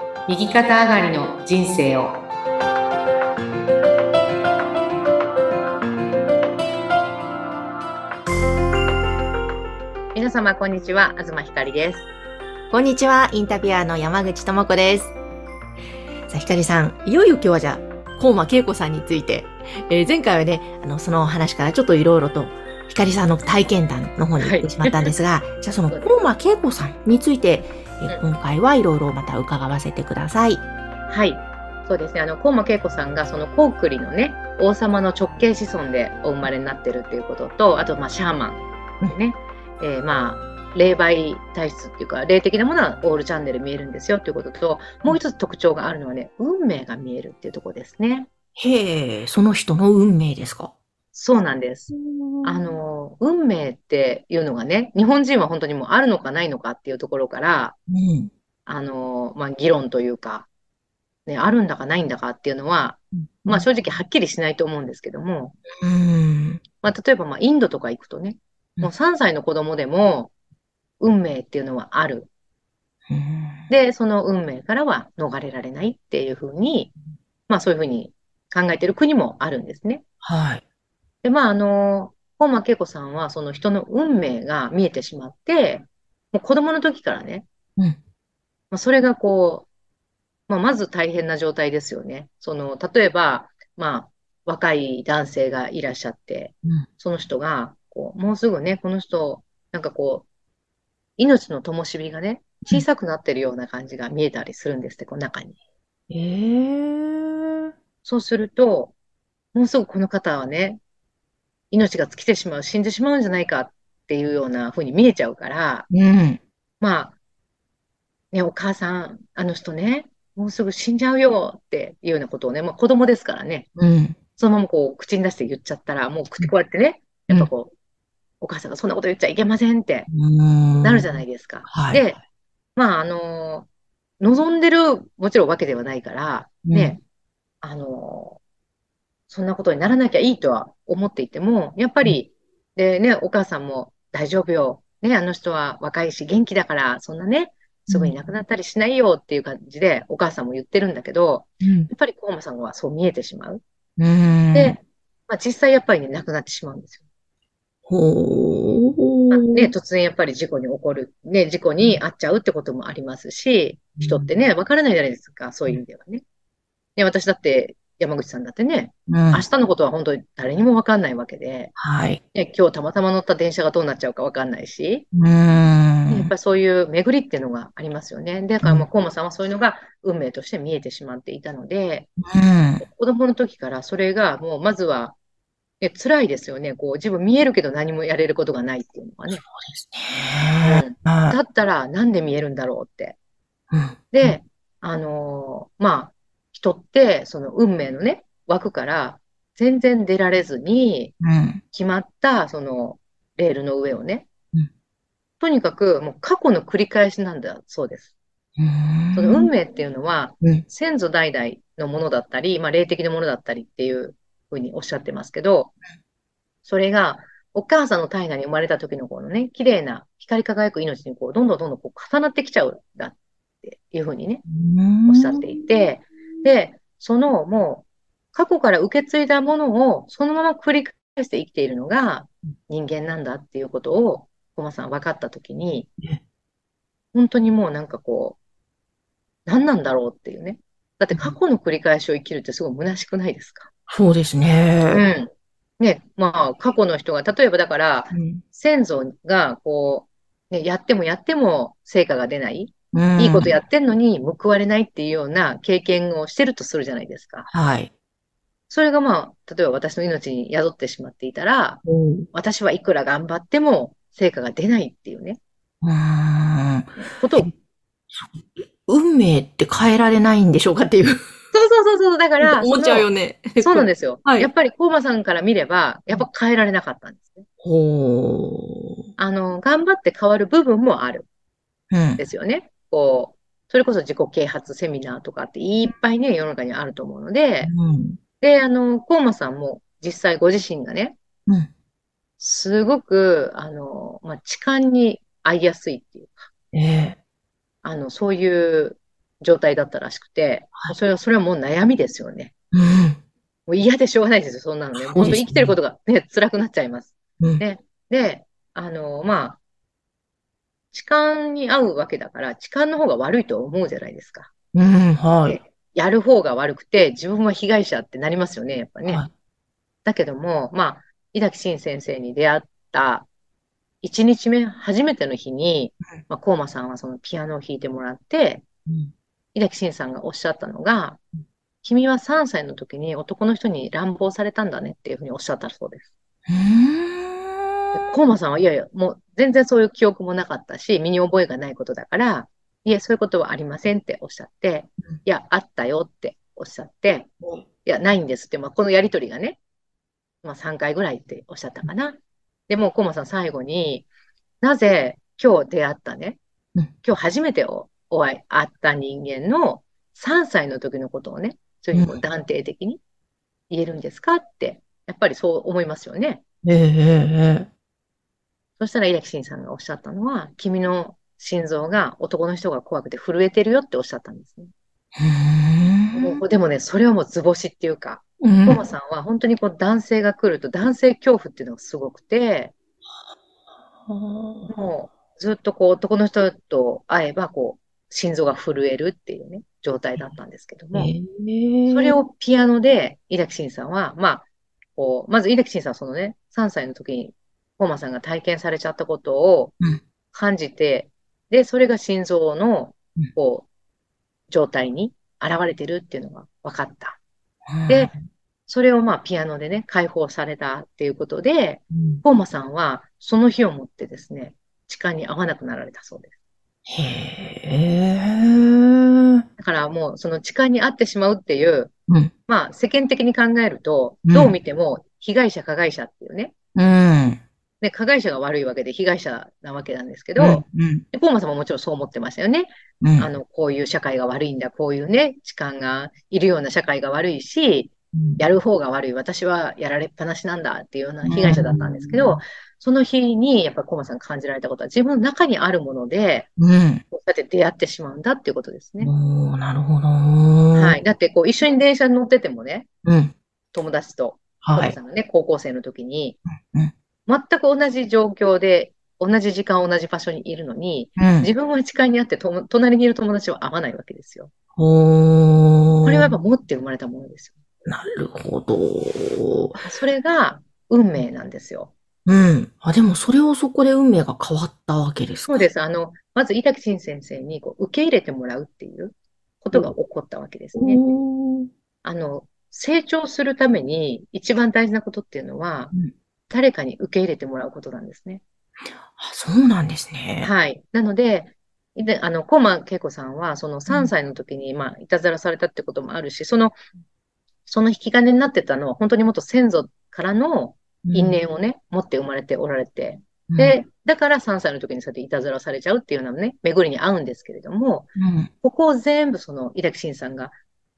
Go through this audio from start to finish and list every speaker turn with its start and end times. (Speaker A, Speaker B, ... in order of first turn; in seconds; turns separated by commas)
Speaker A: 0.3-2.2, Speaker A: 10.1-12.1, Speaker B: 12.7-15.1, Speaker B: 16.3-30.6, Speaker A: 24.4-25.1, Speaker A: 31.1-48.3, Speaker B: 48.6-50.7, Speaker A: 51.1-51.9, Speaker B: 51.9-52.7, Speaker A: 52.4-57.8, Speaker B: 57.9-58.3, Speaker A: 58.7-60.5, Speaker A: 61.3-65.6, Speaker B: 63.2-63.7, Speaker B: 65.8-66.6, Speaker A: 66.8-70.3, Speaker A: 71.0-72.3, Speaker B: 73.1-73.7, Speaker A: 73.7-76.9, Speaker A: 77.5-80.0, Speaker B: 80.2-80.6, Speaker A: 81.2-87.5, Speaker A: 88.7-89.7, Speaker A: 90.5-100.3, Speaker A: 101.2-105.6, Speaker B: 106.1-107.7, Speaker A: 108.0-108.9, Speaker A: 109.5-110.8, Speaker A: 111.7-115.9, Speaker B: 115.9-116.4, Speaker A: 116.8-117.2, Speaker A: 118.3-123.7, Speaker B: 123.8-124.2, Speaker A: 124.4-127.7, Speaker A: 128.4-130.1, Speaker B: 130.1-132.0, Speaker A: 130.8-132.2, Speaker A: 132.8-133.7, Speaker A: 134.2-137.0, Speaker B: 136.7-137.0, Speaker A: 137.6-138.4, Speaker A: 139.3-153.6, Speaker B: 151.6-151.9, Speaker B: 154.0-154.8, Speaker A: 154.5-157.0, Speaker B: 157.9-159.7, Speaker A: 159.3-166.2, Speaker B: 164.0-164.3, Speaker A: 167.0-171.7, Speaker B: 169.1-169.5, Speaker B: 171.8-172.2, Speaker A: 172.3-175.1, Speaker B: 175.1-176.3, Speaker A: 176.1-182.1, Speaker B: 182.2-182.8, Speaker A: 182.8-185.2, Speaker A: 185.8-189.4, Speaker B: 189.3-191.4, Speaker A: 190.6-193.2, Speaker B: 193.7-194.4, Speaker A: 194.1-201.2, Speaker B: 201.2-201.6, Speaker A: 201.7-204.3, Speaker A: 205.4-208.1, Speaker B: 208.6-209.5, Speaker A: 209.1-215.7, Speaker A: 216.7-224.4, Speaker B: 224.5-225.7, Speaker A: 225.1-235.9, Speaker A: 237.1-238.4, Speaker A: 239.5-243.7, Speaker B: 243.9-245.0, Speaker A: 244.9-257.5, Speaker B: 248.1-248.4, Speaker B: 252.9-253.6, Speaker B: 257.5-257.9, Speaker A: 258.7-265.4, Speaker B: 261.9-262.3, Speaker B: 265.8-267.5, Speaker A: 267.0-267.5, Speaker B: 268.1-271.2, Speaker A: 271.5-277.4, Speaker B: 272.4-274.5, Speaker B: 277.6-279.0, Speaker A: 279.2-281.2, Speaker B: 281.9-282.2, Speaker A: 282.2-287.7, Speaker B: 287.6-288.2, Speaker A: 288.4-291.1, Speaker A: 292.4-296.5, Speaker B: 296.7-297.2, Speaker A: 297.8-302.5, Speaker B: 302.7-303.2, Speaker A: 303.7-309.6, Speaker B: 304.9-305.8, Speaker A: 310.9-314.5, Speaker B: 314.7-315.6, Speaker A: 315.4-319.2, Speaker B: 319.1-319.3, Speaker A: 320.0-323.3, Speaker A: 324.0-328.6, Speaker A: 329.5-331.2, Speaker A: 331.8-336.1, Speaker B: 336.5-338.0, Speaker A: 337.9-347.3, Speaker A: 347.8-349.6, Speaker A: 350.4-352.2, Speaker A: 352.7-354.1, Speaker A: 354.6-356.4, Speaker A: 357.0-363.0, Speaker B: 361.9-362.2, Speaker A: 363.7-366.4, Speaker B: 366.6-367.7, Speaker A: 368.8-374.7, Speaker B: 375.1-376.4, Speaker A: 376.1-382.7, Speaker B: 378.4-378.8, Speaker B: 384.1-384.7, Speaker A: 384.7-391.1, Speaker B: 390.9-392.2, Speaker A: 391.9-399.7, Speaker A: 400.3-403.6, Speaker A: 404.5-407.2, Speaker B: 407.7-408.2, Speaker A: 408.7-416.3, Speaker B: 411.9-412.2, Speaker B: 416.9-419.4, Speaker A: 419.6-421.9, Speaker A: 422.5-426.5, Speaker B: 424.2-424.5, Speaker B: 426.7-427.4, Speaker A: 427.8-446.5, Speaker B: 430.4-431.0, Speaker B: 433.0-433.3, Speaker B: 438.1-438.4, Speaker B: 441.2-442.4, Speaker B: 446.6-447.0, Speaker A: 447.1-449.1, Speaker B: 449.0-451.0, Speaker A: 450.7-452.9, Speaker B: 453.0-453.3, Speaker A: 453.7-456.4, Speaker B: 454.6-454.9, Speaker B: 456.6-456.9, Speaker A: 457.3-464.5, Speaker B: 461.2-461.5, Speaker B: 464.8-466.3, Speaker A: 466.0-467.5, Speaker B: 467.9-469.8, Speaker A: 469.8-471.9, Speaker B: 472.2-475.6, Speaker A: 475.4-481.1, Speaker B: 480.7-481.7, Speaker A: 482.0-485.9, Speaker A: 486.5-488.4, Speaker B: 489.1-490.5, Speaker A: 490.4-496.8, Speaker A: 497.6-510.5, Speaker B: 501.1-501.4, Speaker B: 503.5-503.8, Speaker B: 508.2-508.5